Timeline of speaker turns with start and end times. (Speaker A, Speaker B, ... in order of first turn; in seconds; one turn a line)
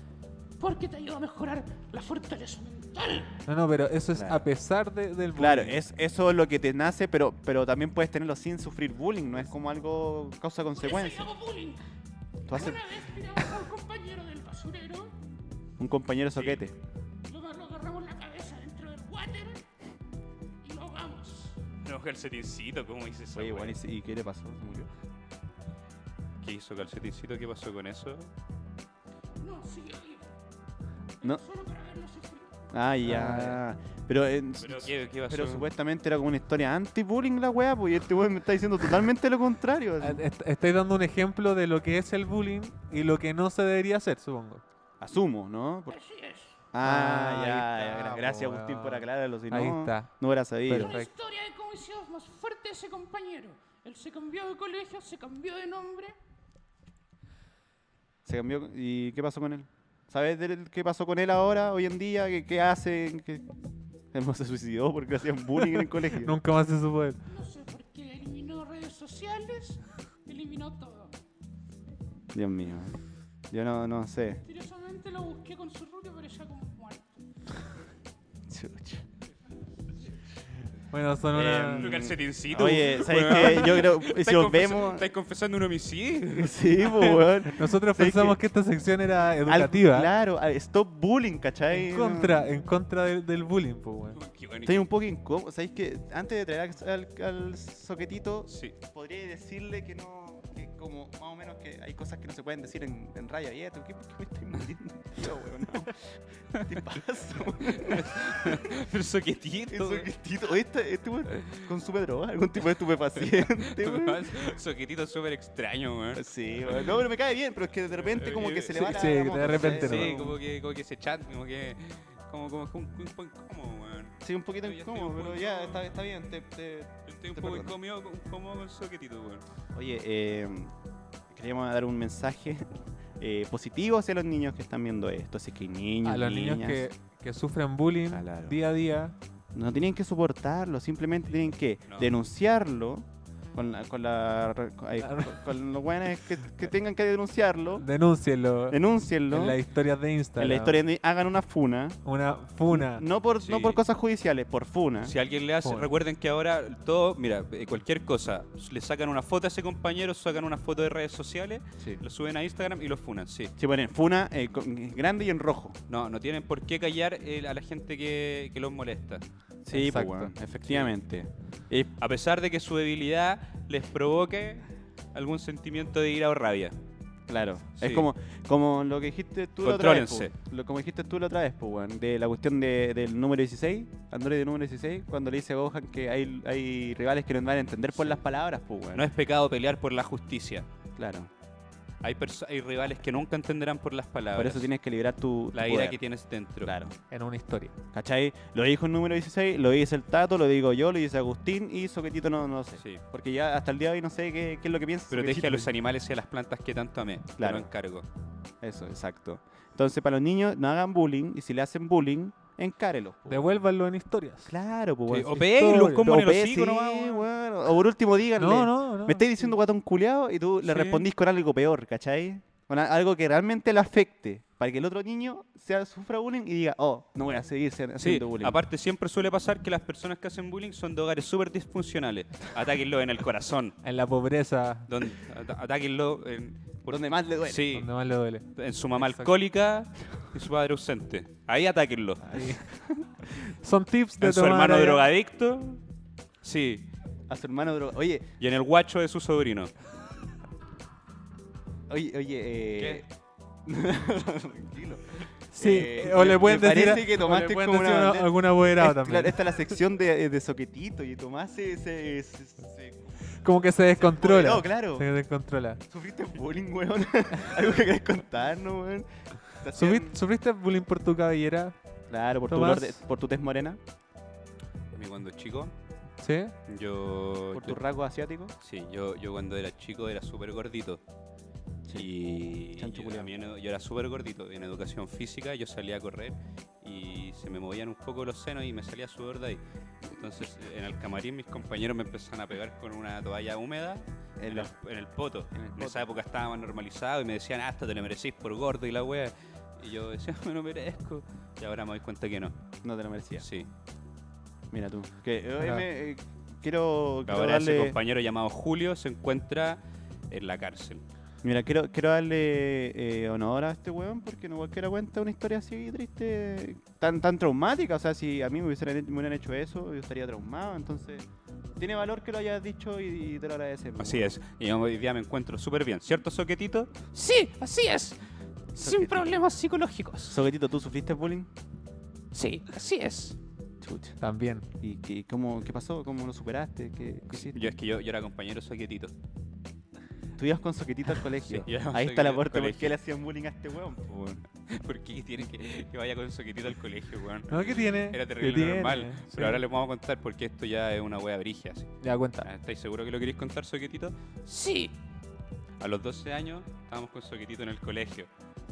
Speaker A: 0.6-3.4
Speaker B: 3.5-5.8
Speaker C: 4.1-4.5
Speaker C: 5.3-11.3
Speaker A: 10.8-11.8
Speaker C: 12.5-12.8
Speaker A: 12.5-15.1
Speaker C: 15.8-16.8
Speaker A: 17.3-19.6
Speaker A: 20.6-21.6
Speaker D: 21.8-23.8
Speaker C: 23.4-24.9
Speaker D: 26.4-28.3
Speaker A: 29.4-30.3
Speaker A: 31.2-32.6
Speaker C: 32.7-40.2
Speaker B: 33.0-33.6
Speaker D: 34.6-35.7
Speaker B: 40.0-44.6
Speaker C: 45.0-46.0
Speaker A: 45.9-46.6
Speaker C: 46.7-50.9
Speaker B: 46.8-50.1
Speaker B: 50.6-51.1
Speaker A: 50.8-56.1
Speaker C: 58.3-63.5
Speaker C: 64.1-66.4
Speaker B: 66.2-67.2
Speaker A: 67.3-71.2
Speaker C: 72.3-73.0
Speaker C: 73.5-74.4
Speaker A: 74.5-77.2
Speaker C: 78.5-79.0
Speaker B: 80.9-81.9
Speaker C: 81.3-85.1
Speaker D: 81.8-87.2
Speaker C: 86.3-88.4
Speaker B: 87.5-90.1
Speaker C: 89.4-92.5
Speaker B: 91.7-94.2
Speaker D: 94.2-94.9
Speaker C: 94.6-108.8
Speaker D: 98.5-98.8
Speaker D: 107.7-110.1
Speaker C: 109.7-114.5
Speaker D: 111.3-111.6
Speaker D: 113.4-116.9
Speaker C: 116.2-120.4
Speaker D: 118.1-118.8
Speaker B: 118.7-120.1
Speaker D: 119.5-125.9
Speaker C: 124.2-127.7
Speaker D: 127.1-129.4
Speaker C: 129.7-130.7
Speaker C: 131.3-132.7
Speaker C: 133.2-136.8
Speaker B: 136.0-139.2
Speaker C: 138.1-138.6
Speaker C: 139.5-147.8
Speaker D: 141.9-142.1
Speaker B: 145.0-145.4
Speaker B: 147.8-150.8
Speaker C: 148.7-149.6
Speaker C: 150.4-152.0
Speaker B: 152.1-153.0
Speaker C: 152.7-155.1
Speaker D: 153.4-153.8
Speaker D: 155.0-163.5
Speaker B: 155.6-155.9
Speaker C: 163.6-165.8
Speaker D: 165.9-169.2
Speaker C: 169.7-171.9
Speaker B: 169.7-170.3
Speaker D: 170.7-170.9
Speaker D: 172.0-176.8
Speaker C: 177.3-189.1
Speaker D: 177.8-178.1
Speaker D: 179.6-180.3
Speaker D: 188.9-190.7
Speaker C: 191.0-191.3
Speaker D: 192.0-194.7
Speaker C: 194.3-196.0
Speaker D: 195.5-196.7
Speaker C: 196.6-197.0
Speaker B: 197.1-197.7
Speaker C: 197.9-205.7
Speaker D: 205.1-208.0
Speaker C: 207.4-207.7
Speaker C: 208.6-213.5
Speaker B: 213.3-214.5
Speaker C: 214.4-228.6
Speaker D: 215.1-217.3
Speaker B: 218.4-219.2
Speaker D: 220.6-221.1
Speaker D: 228.0-233.8
Speaker B: 233.8-234.9
Speaker D: 234.9-237.9
Speaker C: 236.9-237.8
Speaker B: 237.7-239.3
Speaker D: 238.6-242.2
Speaker B: 242.2-242.7
Speaker B: 243.6-245.1
Speaker D: 244.2-245.8
Speaker D: 246.4-246.9
Speaker C: 247.3-248.3
Speaker D: 248.4-249.7
Speaker C: 251.9-253.1
Speaker D: 252.8-253.1
Speaker C: 253.7-263.3
Speaker B: 255.5-259.4
Speaker B: 263.4-265.8
Speaker C: 264.0-265.1
Speaker C: 265.9-270.2
Speaker B: 269.7-271.8
Speaker C: 272.1-273.8
Speaker B: 272.5-273.0
Speaker D: 274.9-275.7
Speaker B: 276.2-276.5
Speaker D: 276.7-277.8
Speaker C: 277.5-278.5
Speaker D: 278.6-281.0
Speaker C: 281.9-282.1
Speaker D: 282.0-302.5
Speaker C: 282.7-283.3
Speaker C: 294.4-294.7
Speaker C: 295.5-296.2
Speaker C: 302.8-303.5
Speaker D: 303.4-303.7
Speaker C: 304.7-308.0
Speaker D: 307.3-311.0
Speaker C: 311.4-321.3
Speaker C: 321.8-324.3
Speaker D: 324.0-326.9
Speaker A: 327.1-328.2
Speaker A: 328.7-330.4
Speaker C: 328.8-329.4
Speaker C: 330.3-331.5
Speaker A: 332.3-333.4
Speaker C: 333.8-334.2
Speaker B: 334.2-334.7
Speaker C: 334.8-337.7
Speaker D: 337.4-339.1
Speaker C: 340.4-344.4
Speaker D: 341.4-342.9
Speaker D: 344.7-354.1
Speaker B: 347.5-349.6
Speaker B: 352.0-352.5
Speaker A: 354.4-355.0
Speaker D: 355.8-358.3